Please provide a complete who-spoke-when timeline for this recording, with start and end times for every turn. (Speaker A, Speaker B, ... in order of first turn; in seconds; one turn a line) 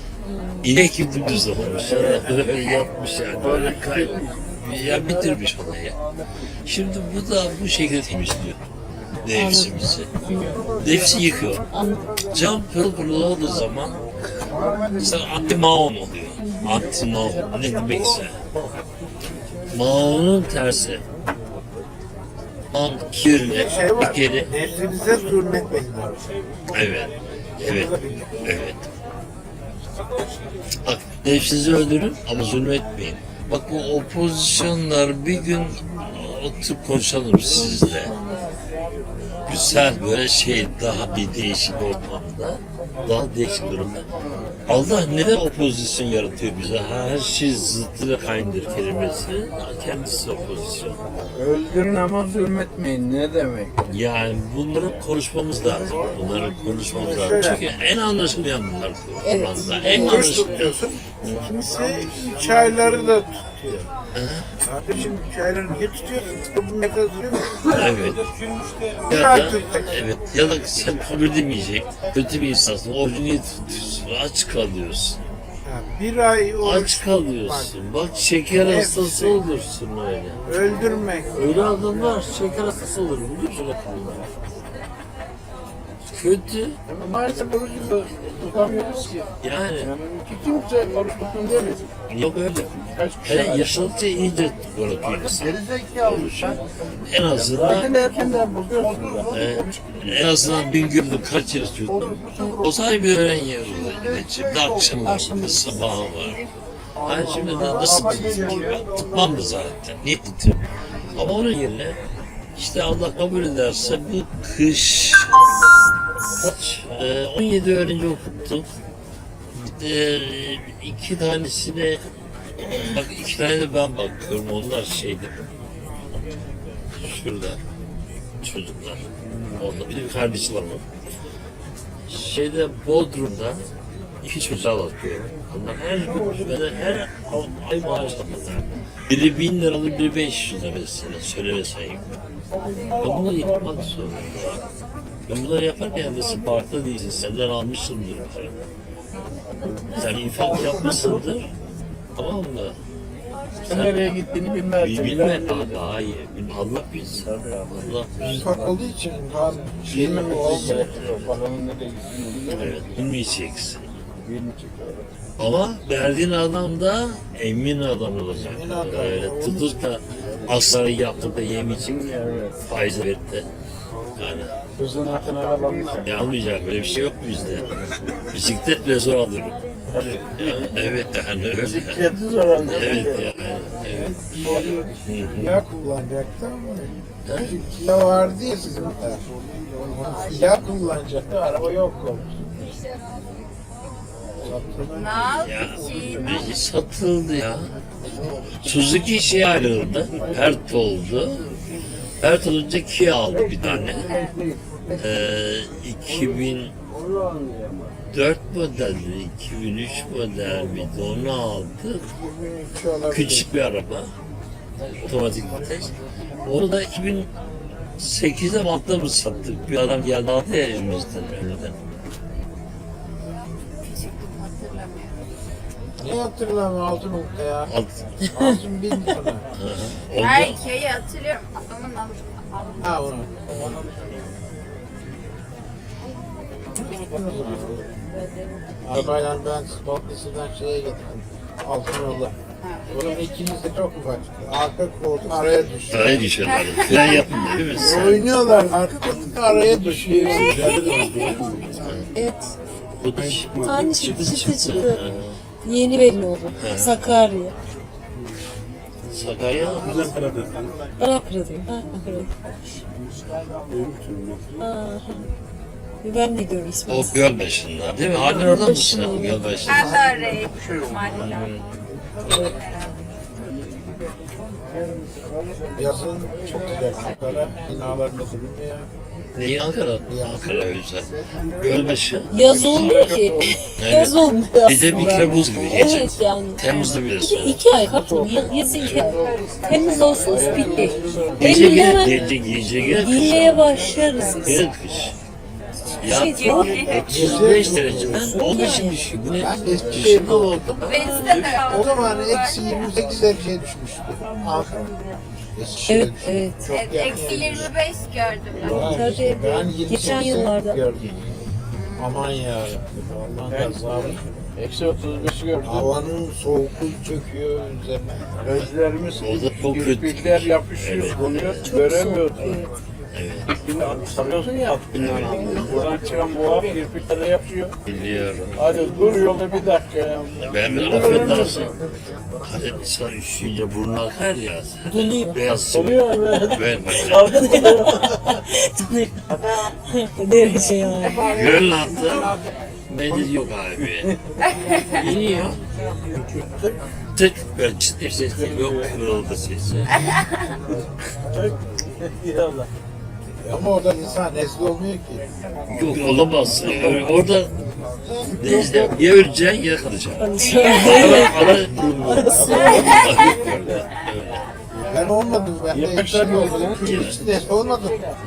Speaker A: 0.2-0.7
Speaker B: 0.6-5.9
Speaker C: 3.4-4.3
Speaker B: 6.7-8.6
Speaker B: 9.2-10.1
Speaker A: 9.3-10.7
Speaker B: 10.8-11.7
Speaker A: 11.7-12.0
Speaker B: 12.3-14.0
Speaker B: 15.0-18.4
Speaker A: 16.4-16.8
Speaker B: 19.7-21.0
Speaker B: 22.7-24.5
Speaker D: 23.4-26.1
Speaker B: 26.7-27.9
Speaker B: 28.4-28.8
Speaker B: 30.8-38.1
Speaker A: 37.5-38.5
Speaker B: 39.5-44.0
Speaker B: 44.7-51.0
Speaker C: 51.3-53.7
Speaker B: 53.9-61.4
Speaker D: 57.0-57.6
Speaker A: 59.2-60.3
Speaker D: 59.9-63.8
Speaker B: 64.1-64.5
Speaker D: 64.7-67.8
Speaker B: 67.7-68.2
Speaker D: 69.1-69.9
Speaker B: 69.1-75.2
Speaker D: 75.6-77.7
Speaker B: 76.6-80.4
Speaker D: 78.6-79.4
Speaker D: 80.5-81.6
Speaker B: 81.3-84.2
Speaker B: 86.0-86.8
Speaker C: 86.9-89.2
Speaker B: 89.4-89.9
Speaker C: 89.8-91.8
Speaker B: 92.1-92.7
Speaker C: 93.0-93.8
Speaker B: 93.2-97.9
Speaker C: 97.5-99.3
Speaker B: 99.3-106.4
Speaker A: 105.0-105.8
Speaker B: 107.0-110.6
Speaker B: 111.1-112.0
Speaker B: 112.6-115.4
Speaker B: 116.3-118.7
Speaker B: 119.5-122.0
Speaker B: 122.6-125.4
Speaker B: 127.0-127.6
Speaker B: 128.4-129.0
Speaker C: 129.2-129.6
Speaker B: 129.6-130.8
Speaker B: 132.1-133.6
Speaker B: 134.2-142.0
Speaker C: 142.7-143.6
Speaker B: 143.0-144.6
Speaker B: 145.3-148.5
Speaker B: 149.9-151.5
Speaker B: 152.2-152.7
Speaker B: 153.7-153.9
Speaker C: 153.7-155.8
Speaker B: 154.8-158.1
Speaker C: 157.2-158.5
Speaker D: 158.2-160.8
Speaker C: 159.9-162.8
Speaker B: 160.3-161.3
Speaker B: 162.5-163.8
Speaker C: 164.2-165.1
Speaker B: 165.4-172.0
Speaker D: 168.5-169.7
Speaker C: 171.8-172.5
Speaker B: 172.7-173.4
Speaker B: 174.2-174.5
Speaker C: 174.8-176.0
Speaker B: 176.0-177.7
Speaker B: 178.3-179.6
Speaker C: 179.9-180.7
Speaker B: 180.1-182.0
Speaker C: 181.6-183.2
Speaker B: 182.6-184.1
Speaker B: 185.1-185.5
Speaker D: 185.4-186.9
Speaker B: 187.2-187.5
Speaker D: 187.4-189.2
Speaker D: 190.0-192.2
Speaker E: 194.9-196.5
Speaker B: 195.4-197.7
Speaker B: 198.6-201.4
Speaker C: 200.1-200.5
Speaker B: 202.2-204.1
Speaker C: 203.6-204.9
Speaker B: 205.0-206.7
Speaker C: 206.9-207.9
Speaker B: 208.1-212.0
Speaker D: 212.4-213.5
Speaker B: 213.1-214.1
Speaker B: 214.8-215.9
Speaker B: 216.4-217.3
Speaker B: 218.0-221.7
Speaker E: 223.9-224.9
Speaker D: 226.0-227.7
Speaker B: 227.7-227.9
Speaker D: 228.3-229.4
Speaker B: 229.6-230.6
Speaker E: 230.2-232.2
Speaker D: 232.8-233.8
Speaker D: 236.9-237.8
Speaker D: 238.8-242.3
Speaker D: 242.9-246.3
Speaker B: 245.9-248.3
Speaker E: 246.4-247.4
Speaker D: 247.8-250.7
Speaker C: 249.9-250.6
Speaker A: 250.5-252.5
Speaker B: 250.9-252.0
Speaker B: 253.0-255.4
Speaker A: 253.6-255.0
Speaker A: 255.6-257.5
Speaker B: 256.6-256.9
Speaker B: 259.1-260.1
Speaker A: 261.0-262.3
Speaker C: 263.7-264.6
Speaker A: 264.6-265.2
Speaker A: 266.0-267.1
Speaker B: 266.9-270.1
Speaker A: 268.2-269.4
Speaker E: 269.7-271.4
Speaker B: 271.1-271.6
Speaker A: 272.3-272.5
Speaker D: 275.8-278.9
Speaker B: 279.4-281.1
Speaker D: 280.1-280.4
Speaker B: 281.6-283.1
Speaker A: 282.3-292.2
Speaker C: 282.4-283.5
Speaker B: 283.7-287.7
Speaker B: 288.8-289.0
Speaker C: 290.1-291.6
Speaker B: 291.4-295.1
Speaker C: 292.3-293.1
Speaker A: 292.9-294.6
Speaker B: 296.0-301.5
Speaker A: 296.0-296.8
Speaker E: 296.3-296.9
Speaker D: 296.9-298.4
Speaker A: 298.3-298.9
Speaker D: 299.4-300.6
Speaker E: 300.8-302.6
Speaker A: 300.9-301.5
Speaker D: 301.7-304.9
Speaker D: 305.6-307.7
Speaker A: 305.9-306.6
Speaker E: 306.7-308.8
Speaker A: 308.6-310.8
Speaker D: 308.7-311.1
Speaker D: 312.0-314.2
Speaker C: 313.5-313.9
Speaker C: 314.6-315.9
Speaker D: 315.6-318.1
Speaker B: 318.4-321.8
Speaker C: 318.5-322.6
Speaker A: 321.6-322.7
Speaker B: 323.1-323.6
Speaker C: 323.5-327.7
Speaker B: 324.9-325.8
Speaker B: 327.8-328.7
Speaker C: 328.6-331.7
Speaker B: 330.4-331.7
Speaker B: 332.4-337.6
Speaker A: 334.9-335.3
Speaker C: 335.6-338.4
Speaker A: 337.4-339.2
Speaker A: 339.8-341.4
Speaker B: 341.3-342.3
Speaker B: 342.9-344.1
Speaker B: 344.9-345.6
Speaker C: 346.1-346.7
Speaker B: 347.1-350.0
Speaker C: 348.3-348.9
Speaker C: 352.0-352.6
Speaker D: 353.4-355.2
Speaker B: 355.7-357.5
Speaker B: 358.4-364.4
Speaker D: 358.4-358.8
Speaker A: 360.2-363.2
Speaker E: 360.6-361.2
Speaker D: 361.4-362.7
Speaker C: 363.0-363.6
Speaker D: 364.8-367.9
Speaker C: 365.7-366.8
Speaker B: 366.8-367.2